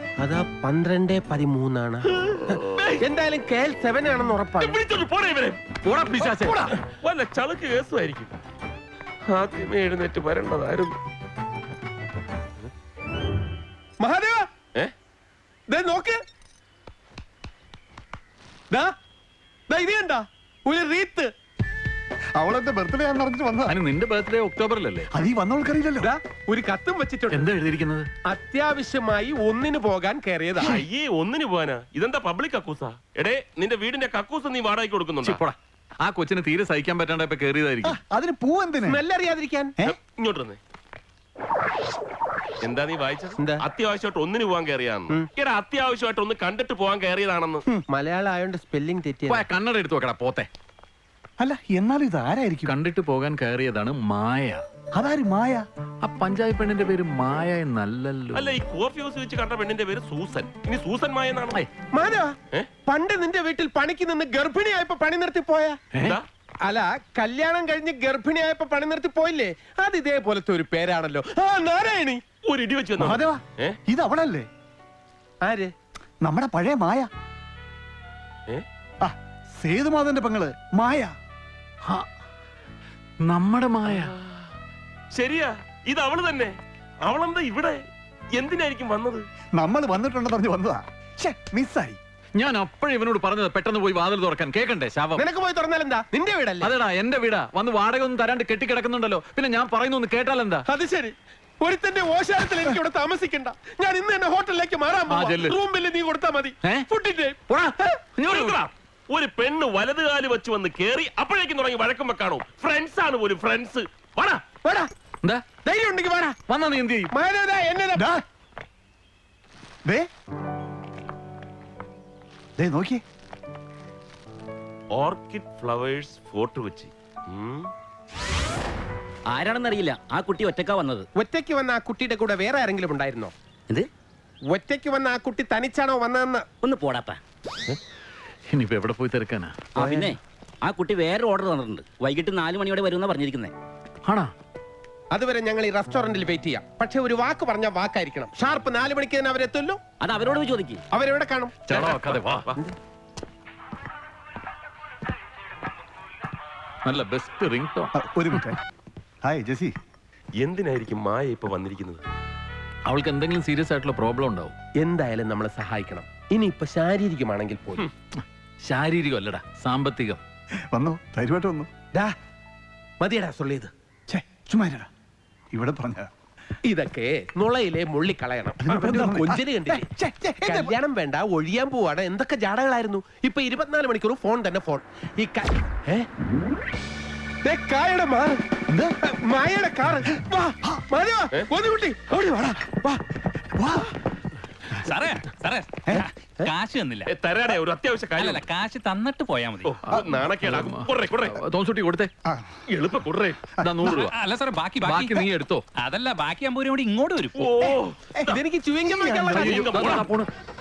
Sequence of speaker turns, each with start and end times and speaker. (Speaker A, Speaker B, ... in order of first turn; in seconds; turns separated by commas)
Speaker A: 0.2-4.8, Speaker B: 2.5-3.0, Speaker B: 4.6-5.6, Speaker C: 5.8-6.7, Speaker A: 6.2-6.7, Speaker B: 7.0-8.3, Speaker B: 9.3-10.9, Speaker A: 14.0-14.5, Speaker A: 15.7-16.2, Speaker A: 19.7-21.3, Speaker D: 22.4-23.7, Speaker C: 23.7-25.1, Speaker D: 25.1-26.1, Speaker A: 26.0-27.5, Speaker C: 27.3-28.1, Speaker A: 28.3-30.7, Speaker B: 30.6-35.4, Speaker C: 35.2-38.0, Speaker D: 37.8-39.0, Speaker A: 38.8-39.7, Speaker B: 39.9-40.6, Speaker B: 42.6-47.6, Speaker A: 47.9-49.5, Speaker C: 49.3-50.5, Speaker D: 51.4-52.7, Speaker C: 52.7-54.6, Speaker D: 54.9-55.6, Speaker C: 56.0-58.5, Speaker B: 58.3-61.6, Speaker A: 61.9-65.8, Speaker C: 65.9-66.2, Speaker A: 66.6-72.2, Speaker B: 72.5-73.8, Speaker D: 73.0-74.5, Speaker A: 75.4-75.7, Speaker D: 76.2-77.1, Speaker D: 79.0-81.1, Speaker C: 83.2-84.1, Speaker B: 85.1-86.5, Speaker B: 87.1-87.8, Speaker B: 88.3-89.2, Speaker D: 89.6-92.0, Speaker C: 92.4-95.2, Speaker A: 95.2-96.7, Speaker C: 96.6-100.7, Speaker A: 100.7-108.0, Speaker C: 105.1-105.6, Speaker C: 107.5-108.6, Speaker B: 108.3-114.4, Speaker A: 114.6-114.9, Speaker A: 115.6-116.4, Speaker C: 116.5-117.1, Speaker A: 117.1-118.1, Speaker D: 118.0-118.2, Speaker D: 122.6-123.0, Speaker B: 125.0-127.7, Speaker E: 129.3-131.1, Speaker A: 131.2-133.3, Speaker A: 134.5-136.4, Speaker E: 136.6-137.2, Speaker C: 138.5-139.5, Speaker E: 139.8-143.5, Speaker A: 139.8-140.1, Speaker C: 144.1-144.3, Speaker A: 145.1-149.8, Speaker E: 150.0-150.8, Speaker A: 150.9-151.9, Speaker C: 151.7-152.5, Speaker B: 151.8-152.5, Speaker C: 156.8-157.9, Speaker D: 158.0-158.6, Speaker D: 159.2-159.7, Speaker B: 160.4-162.0, Speaker C: 162.9-164.5, Speaker A: 164.8-167.9, Speaker C: 168.2-170.2, Speaker D: 170.7-171.7, Speaker A: 173.0-173.7, Speaker D: 174.1-174.9, Speaker D: 175.5-176.1, Speaker A: 176.7-179.8, Speaker D: 178.6-180.8, Speaker A: 180.4-186.1, Speaker A: 187.4-188.4, Speaker A: 189.1-193.0, Speaker D: 193.6-193.9, Speaker F: 194.8-197.1, Speaker B: 197.1-198.5, Speaker F: 198.2-199.8, Speaker B: 199.7-201.4, Speaker C: 199.9-202.1, Speaker B: 202.7-203.4, Speaker C: 203.6-204.2, Speaker D: 203.7-203.9, Speaker F: 203.8-207.5, Speaker C: 204.8-205.6, Speaker B: 207.3-208.4, Speaker A: 208.3-210.0, Speaker D: 208.8-209.7, Speaker C: 209.3-210.3, Speaker B: 209.3-210.1